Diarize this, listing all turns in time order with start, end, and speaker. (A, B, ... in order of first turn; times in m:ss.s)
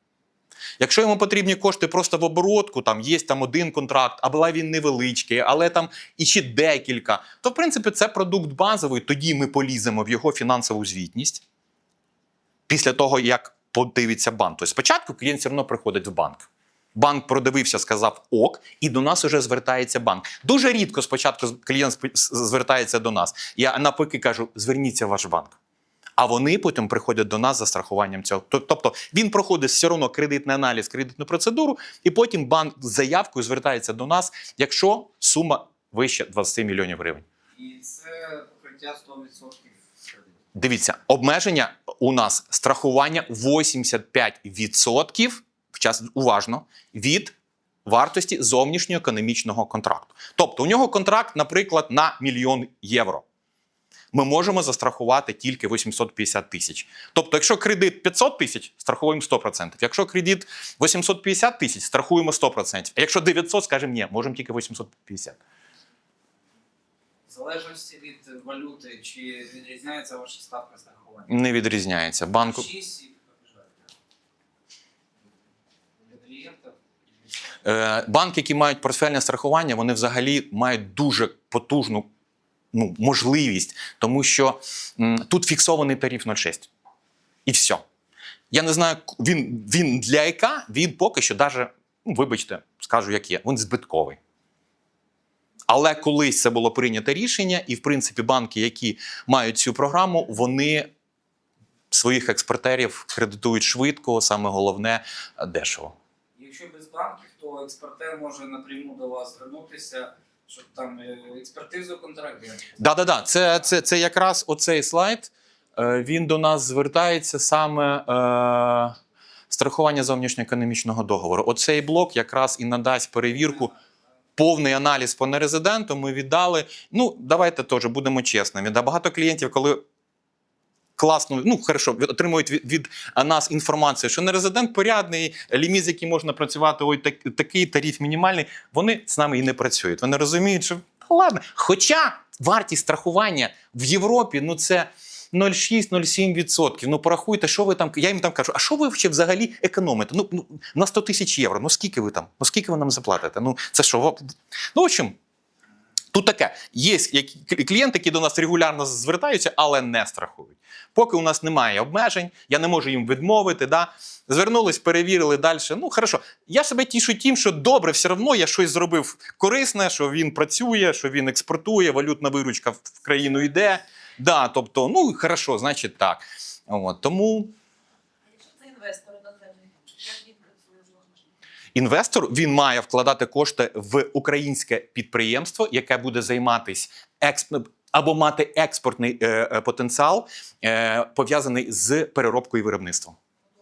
0:00.8-0:11.4 A
0:12.7-0:25.6 A
0:26.2-0:37.2 A
0:37.6-0:39.8 B
0:40.6-0:53.2 A
0:54.1-1:05.4 A
1:07.3-1:11.3 B
1:11.3-1:12.7 A
1:12.4-1:13.8 B
1:16.0-1:16.8 B
1:17.6-1:22.1 A
1:22.7-1:26.7 A
1:27.5-1:27.8 A
1:28.5-1:34.2 A
1:35.7-1:40.9 A
1:41.9-1:46.0 A
1:46.4-1:52.7 B
1:52.8-1:59.0 A
1:59.5-2:03.7 A
2:04.4-2:09.8 A
2:11.0-2:35.2 A
2:36.1-2:57.5 A
2:58.3-3:01.2 C
3:01.7-3:13.2 A